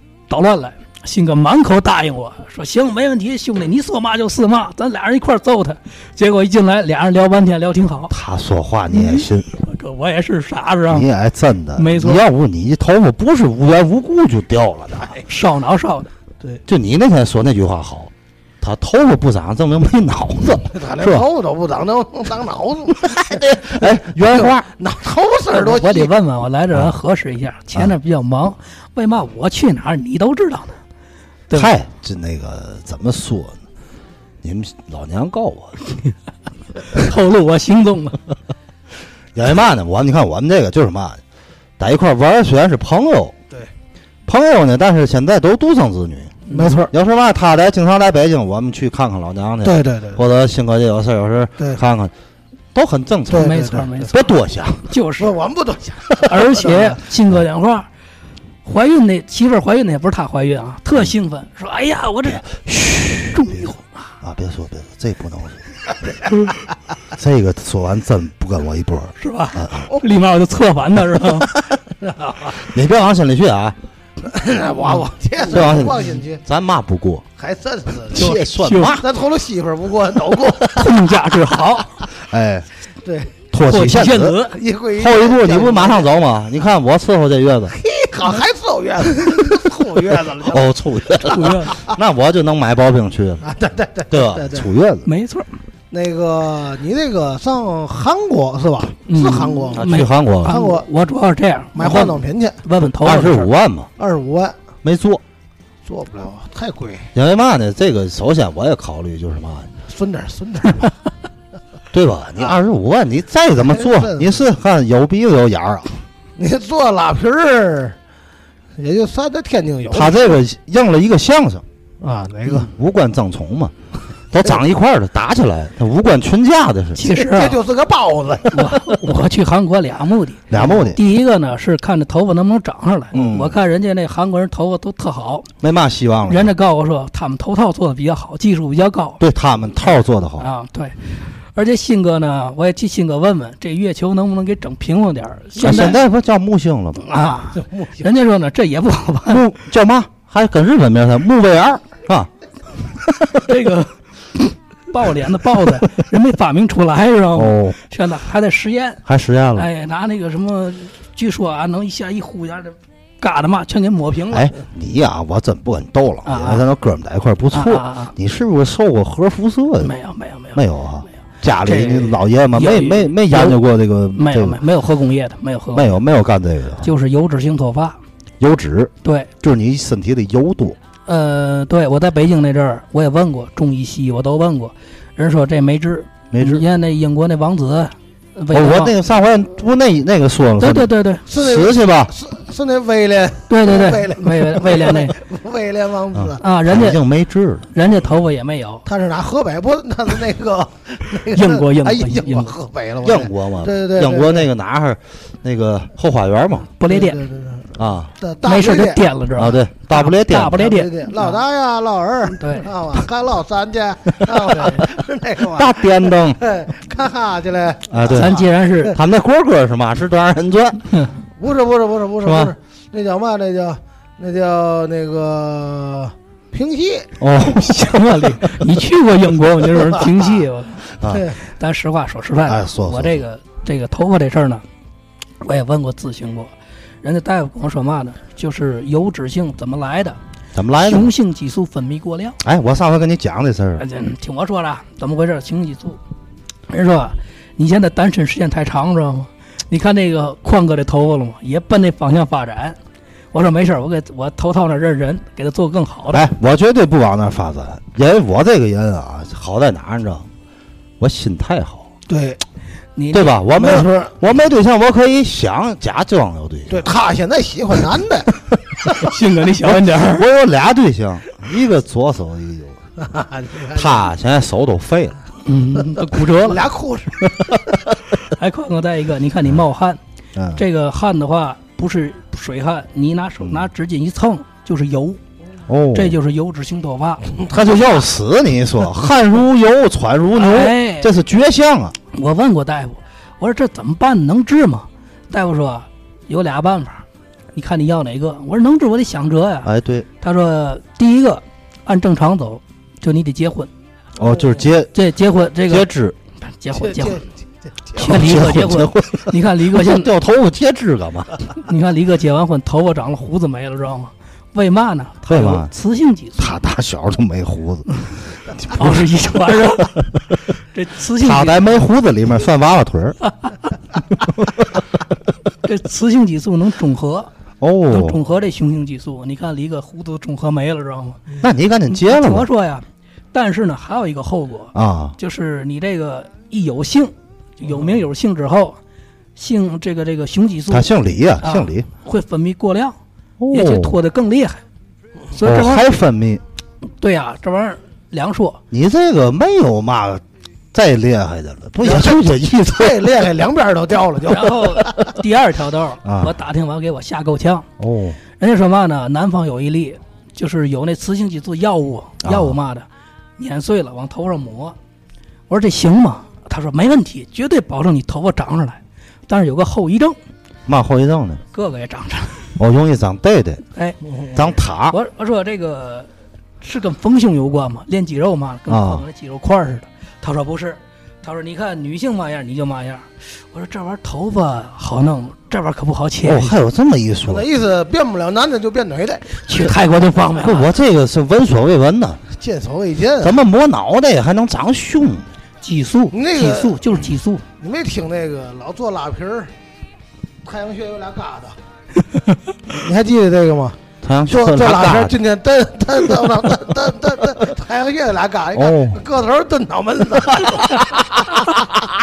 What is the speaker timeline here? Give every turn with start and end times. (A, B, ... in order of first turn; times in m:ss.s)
0:00.3-0:08.1 A
0:08.1-0:09.5 B
0:08.9-0:11.1 A
0:10.9-0:15.2 B
0:11.8-0:12.2 A
0:15.3-0:16.1 A
0:16.7-0:21.3 B
0:20.7-0:26.1 C
0:23.0-0:24.7 B
0:25.5-0:30.8 A
0:31.5-0:33.6 B
0:34.4-0:35.8 B
0:36.9-0:38.2 A
0:39.4-0:41.2 B
0:41.8-0:43.4 B
0:44.3-0:52.1 B
0:46.5-0:46.8 A
0:46.5-0:46.9 C
0:49.6-0:50.2 C
0:52.7-0:54.9 B
0:53.3-0:54.0 C
0:53.3-0:54.3 A
0:54.8-0:55.4 A
0:55.2-0:57.0 C
0:56.2-0:57.9 A
0:58.6-1:02.6 A
1:02.5-1:03.7 B
1:03.3-1:04.0 A
1:04.2-1:05.6 B
1:07.2-1:09.8 B
1:09.2-1:11.5 A
1:12.0-1:12.6 C
1:12.6-1:13.8 B
1:14.2-1:16.4 C
1:15.5-1:17.2 B
1:17.4-1:18.4 C
1:18.1-1:19.0 B
1:18.2-1:19.0 A
1:18.9-1:20.9 C
1:20.7-1:21.9 A
1:22.2-1:22.7 B
1:23.0-1:23.3 C
1:23.5-1:24.4 B
1:23.6-1:24.6 A
1:24.5-1:26.1 C
1:25.0-1:27.8 B
1:27.7-1:32.0 C
1:30.4-1:33.4 B
1:31.3-1:31.8 A
1:33.4-1:34.7 C
1:34.1-1:35.1 B
1:35.1-1:35.5 A
1:35.9-1:40.9 C
1:39.1-1:43.5 A
1:39.8-1:40.6 B
1:41.8-1:42.6 C
1:43.0-1:43.9 B
1:44.0-1:44.6 C
1:44.8-1:45.2 B
1:45.8-1:47.1 C
1:47.1-1:49.7 B
1:49.9-1:50.9 C
1:51.9-1:56.0 B
1:53.7-1:54.4 C
1:56.4-1:58.0 C
1:58.8-2:00.4 C
1:59.9-2:01.6 B
2:02.0-2:02.7 C
2:02.5-2:03.7 B
2:04.3-2:07.0 B
2:07.0-2:07.6 A
2:07.0-2:08.9 C
2:08.5-2:15.5 A
2:10.5-2:11.0 B
2:13.1-2:13.6 B
2:15.6-2:16.5 B
2:16.3-2:19.2 A
2:19.2-2:20.5 B
2:20.4-2:26.0 A
2:25.6-2:27.1 B
2:27.1-2:29.4 A
2:27.5-2:28.1 C
2:29.3-2:32.3 B
2:33.0-2:33.4 B
2:33.4-2:39.0 A
2:37.4-2:37.8 B
2:39.1-2:39.7 B
2:39.6-2:44.5 A
2:44.3-2:49.9 B
2:46.3-2:46.6 A
2:47.5-2:48.1 A
2:49.8-2:50.6 A
2:50.5-2:54.6 B
2:51.6-2:53.6 A
2:54.2-2:55.9 A
2:55.7-2:56.9 B
2:56.8-2:58.0 A
2:58.4-3:00.8 B
2:59.0-2:59.3 A
3:01.1-3:09.0 A
3:06.3-3:06.7 B
3:08.5-3:12.1 B
3:10.6-3:11.2 A
3:11.3-3:16.5 C
3:13.5-3:15.2 A
3:16.1-3:17.7 B
3:16.4-3:17.0 A
3:17.7-3:18.8 A
3:18.9-3:24.5 C
3:21.3-3:22.6 A
3:23.0-3:26.7 B
3:26.8-3:27.2 A
3:26.9-3:29.0 C
3:27.8-3:28.1 B
3:28.4-3:31.2 A
3:29.4-3:30.6 B
3:30.6-3:38.5 C
3:32.4-3:32.7 A
3:35.4-3:36.4 B
3:37.9-3:40.9 B
3:38.1-3:39.0 A
3:41.4-3:47.1 C
3:42.2-3:42.5 B
3:47.2-3:48.0 B
3:47.4-3:51.0 A
3:51.0-3:51.3 B
3:51.1-3:51.4 C
3:51.5-3:54.6 A
3:52.5-3:53.2 B
3:55.4-3:56.5 A
3:57.0-4:00.2 A
4:00.6-4:01.1 B
4:00.8-4:02.4 A
4:02.4-4:03.8 B
4:03.8-4:06.0 A
4:06.7-4:12.8 A
4:13.3-4:16.3 A
4:16.1-4:20.3 B
4:21.0-4:21.9 B
4:22.1-4:22.4 C
4:23.0-4:23.9 A
4:23.1-4:26.9 B
4:23.6-4:24.1 C
4:26.7-4:28.3 C
4:28.9-4:30.3 A
4:29.6-4:32.8 B
4:33.0-4:34.0 C
4:33.7-4:35.2 B
4:35.5-4:36.7 A
4:36.4-4:37.3 C
4:38.2-4:40.0 A
4:40.4-4:40.6 B
4:40.6-4:45.2 A
4:45.7-4:46.2 B
4:45.9-4:47.3 A
4:47.5-4:52.0 B
4:50.4-4:51.1 A
4:52.1-4:59.7 A
4:59.6-5:00.1 B
5:00.2-5:03.7 A
5:04.2-5:04.9 B
5:04.9-5:05.9 A
5:05.7-5:06.2 B
5:06.5-5:07.2 A
5:06.8-5:08.2 C
5:08.0-5:10.1 A
5:08.0-5:11.4 B
5:11.6-5:16.6 A
5:15.3-5:15.7 B
5:16.4-5:18.0 B
5:18.6-5:19.0 B
5:18.7-5:20.1 A
5:20.7-5:21.8 A
5:21.2-5:23.2 B
5:25.6-5:27.3 A
5:27.6-5:28.2 B
5:27.9-5:31.4 A
5:31.4-5:32.5 B
5:31.9-5:38.8 A
5:34.8-5:35.2 B
5:39.4-5:40.9 A
5:40.7-5:41.9 B
5:41.4-5:43.0 A
5:43.4-5:44.0 B
5:43.5-5:44.6 A
5:45.3-5:45.9 A
5:45.4-5:46.4 B
5:47.0-5:48.6 A
5:48.7-5:53.1 B
5:51.8-5:55.0 C
5:54.3-5:57.7 A
5:56.0-5:56.3 B
5:57.8-5:58.2 B
5:58.4-6:02.9 A
6:02.2-6:02.6 B
6:03.4-6:04.8 A
6:05.5-6:10.2 A
6:10.7-6:11.4 B
6:11.5-6:12.5 A
6:12.6-6:13.6 B
6:14.4-6:15.0 B
6:14.9-6:16.1 A
6:16.6-6:26.6 A
6:18.7-6:19.0 B
6:26.2-6:27.5 B
6:27.3-6:29.7 C
6:29.5-6:30.7 A
6:30.4-6:32.2 B
6:32.3-6:33.4 C
6:33.2-6:35.3 B
6:35.6-6:37.4 A
6:36.1-6:36.8 C
6:37.6-6:39.5 C
6:40.4-6:41.6 C
6:42.7-6:51.4 C
6:44.0-6:45.2 B
6:48.5-6:49.0 B